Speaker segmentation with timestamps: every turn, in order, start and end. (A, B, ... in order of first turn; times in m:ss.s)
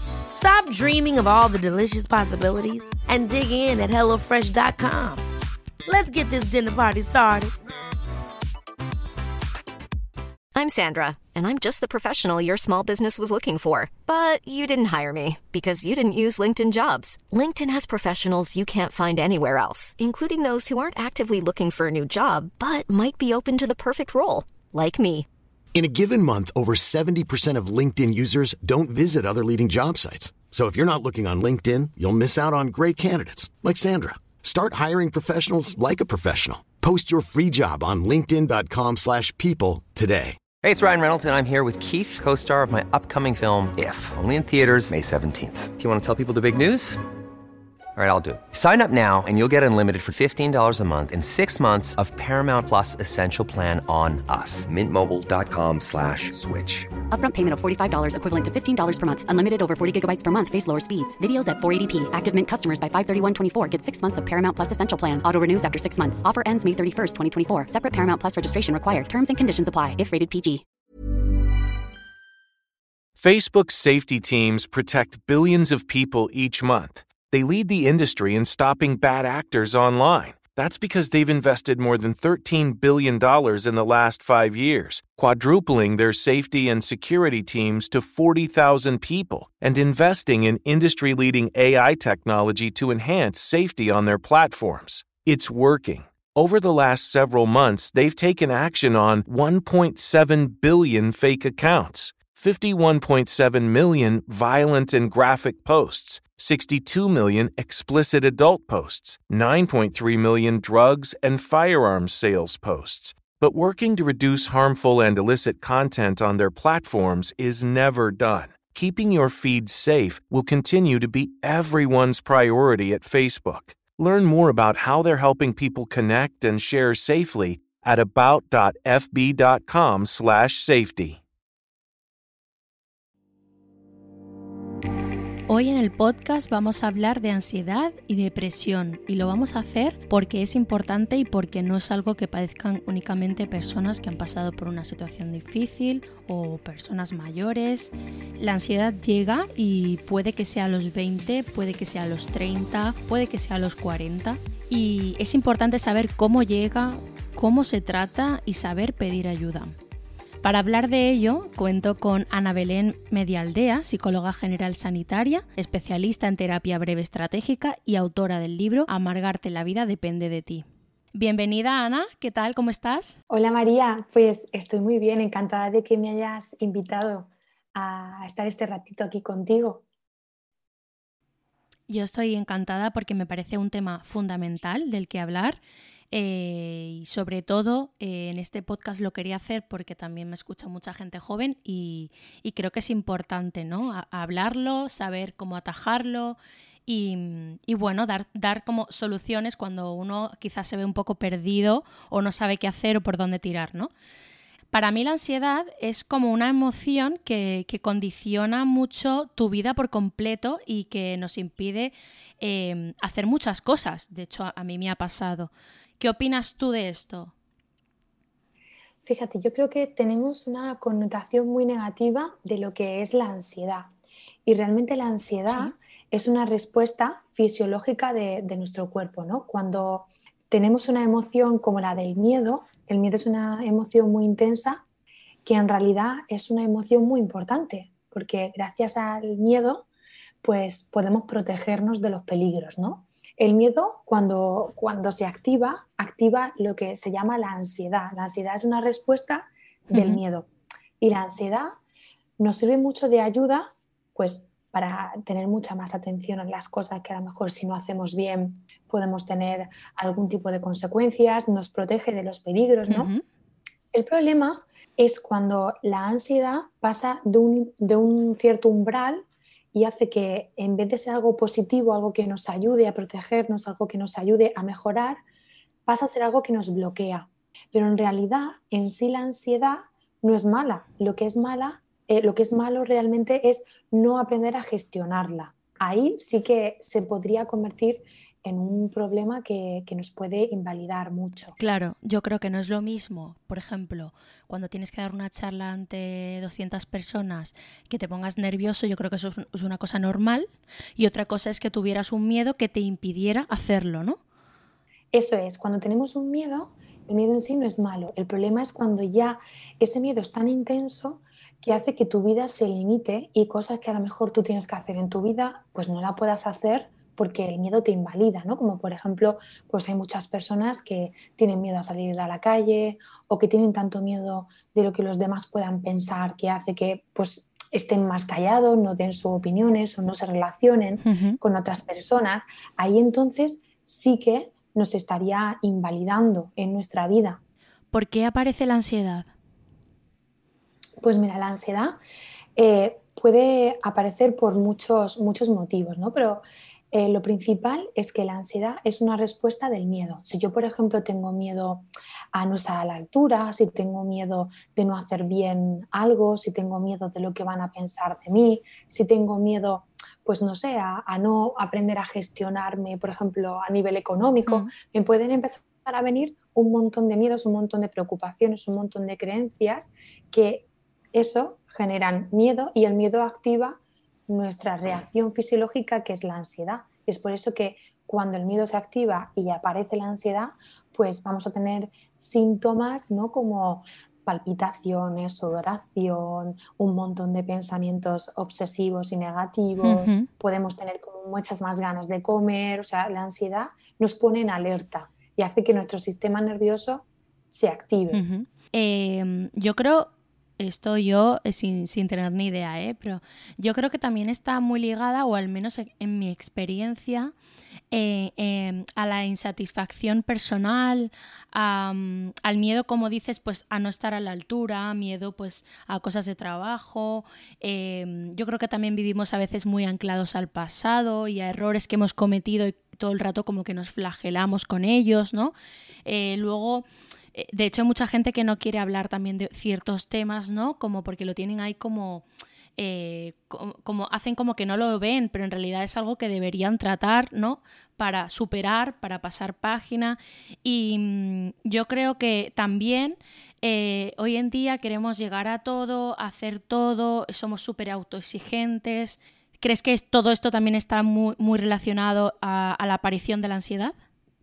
0:00.3-0:05.2 A
0:05.9-0:07.5 A
0:10.6-0:25.3 B
0:25.8-0:40.4 C
0:40.6-0:47.0 D
0:48.0-0:56.9 D
0:57.1-1:10.6 E
1:13.2-2:11.2 F
2:15.5-2:39.8 G
2:40.4-2:53.2 G
2:53.3-2:59.8 H
3:01.9-3:05.6 G
3:06.1-3:23.9 G
3:24.7-3:37.3 G
3:39.0-3:43.9 H
3:44.4-3:54.8 H
3:45.5-3:45.8 G
3:55.4-3:59.9 H
4:00.4-4:10.5 H
4:09.9-4:10.2 G
4:11.0-4:11.8 H
4:12.4-4:23.1 H
4:22.9-4:23.2 G
4:23.9-4:35.2 H
4:35.9-4:51.6 H
4:51.6-5:04.2 G
5:05.1-5:37.4 H
5:31.0-5:31.4 G
5:37.9-5:39.3 G
5:41.0-5:42.0 H
5:42.6-6:38.2 H
6:04.5-6:04.7 G
6:29.8-6:30.3 G
6:38.1-6:47.3 G
6:47.9-7:05.5 G
7:06.0-7:12.2 G
7:12.8-7:34.0 G